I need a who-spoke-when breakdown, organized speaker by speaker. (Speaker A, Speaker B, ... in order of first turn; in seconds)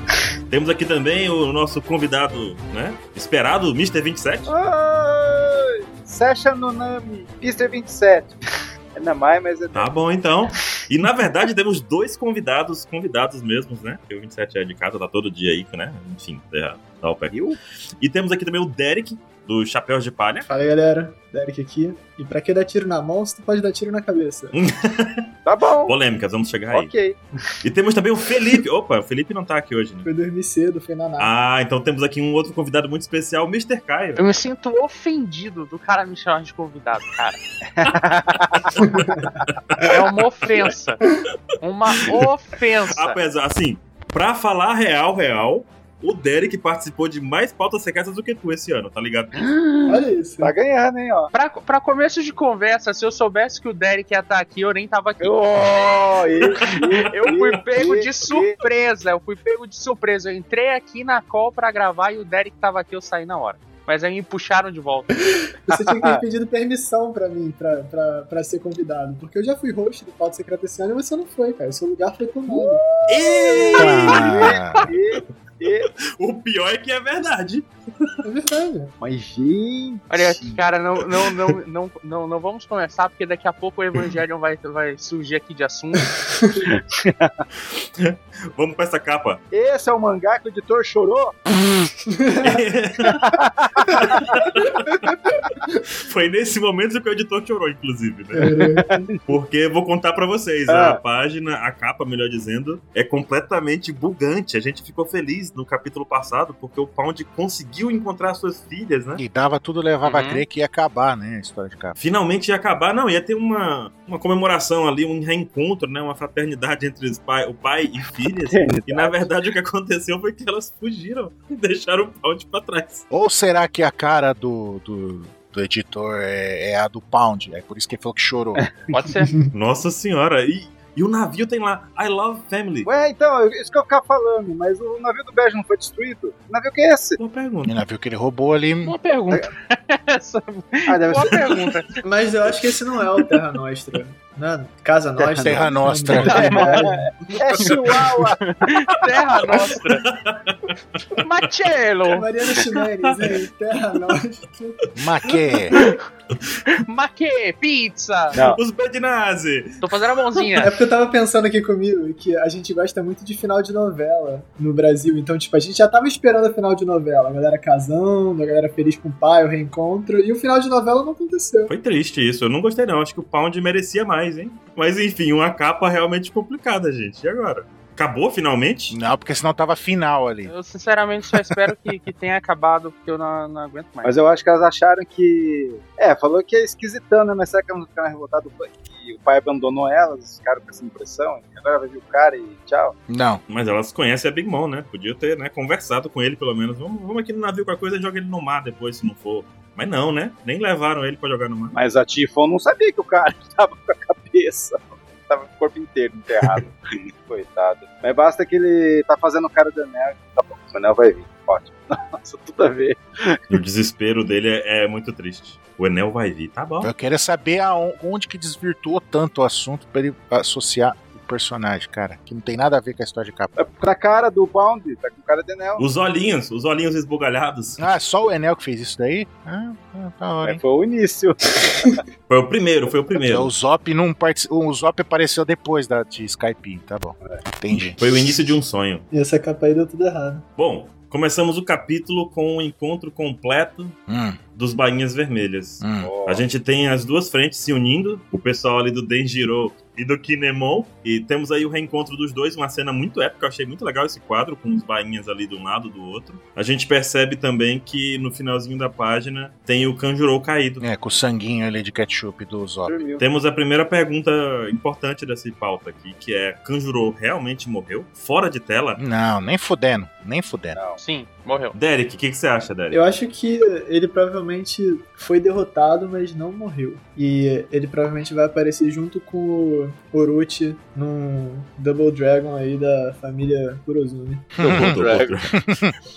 Speaker A: 0.5-4.5, 9.7-17.3, 18.0-20.5, 24.5-25.2, 25.8-26.9, 27.6-30.1, 31.2-34.2, 39.5-40.0, 42.9-49.4, 56.5-57.0, 73.1-74.6, 76.0-78.1, 87.6-89.4, 92.4-93.2, 94.0-95.0, 95.9-98.5, 99.3-109.2, 112.0-123.0, 129.5-132.9, 137.2-137.8, 147.3-148.1, 149.5-150.8, 153.0-153.3, 158.4-159.8, 171.7-178.9, 193.5-201.7, 206.4-206.7, 213.5-216.9, 225.8-227.8, 232.3-233.5, 238.0-239.1, 240.6-243.9, 244.5-260.8, 263.2-269.0, 271.7-273.0, 284.6-285.6
Speaker B: 4.5-8.3, 8.9-9.9, 17.3-17.6, 25.4-26.0, 26.7-27.2, 37.7-38.7, 49.3-51.3, 55.2-58.6, 65.7-66.2, 72.5-75.9, 79.0-80.7, 86.6-87.4, 89.5-91.4, 93.1-94.4, 98.7-99.3, 100.7-101.0, 118.5-119.3, 128.6-128.9, 132.8-137.2, 140.9-141.6, 145.2-148.5, 158.3-158.6, 184.0-193.0, 201.7-213.4, 223.6-225.8, 230.4-232.0, 246.0-246.5, 262.9-263.2, 270.7-271.0, 284.7-285.4
Speaker C: 20.5-24.5, 30.0-31.3, 38.8-39.4, 49.9-50.5, 65.2-72.8, 78.2-78.9, 86.2-86.6, 92.1-92.6, 98.3-99.1, 142.0-147.0, 152.1-154.8, 160.6-171.7, 239.1-240.4, 272.9-284.6
Speaker D: 34.2-37.4, 39.8-41.0, 41.6-43.2, 51.3-55.4, 57.0-65.1, 80.1-86.1, 110.0-110.4, 128.9-129.3, 138.8-142.0, 146.2-146.9, 148.4-150.0, 151.2-152.2, 156.8-158.4, 159.8-160.7, 180.4-184.1, 271.0-271.8
Speaker E: 73.8-74.8, 109.2-112.0, 123.1-128.6, 137.6-138.9, 145.4-146.6, 154.9-155.7, 178.9-180.5, 193.1-193.4, 216.8-223.5, 227.8-230.6, 233.3-238.0, 244.1-244.4, 245.8-246.1, 260.8-263.0, 269.0-270.8, 284.6-285.9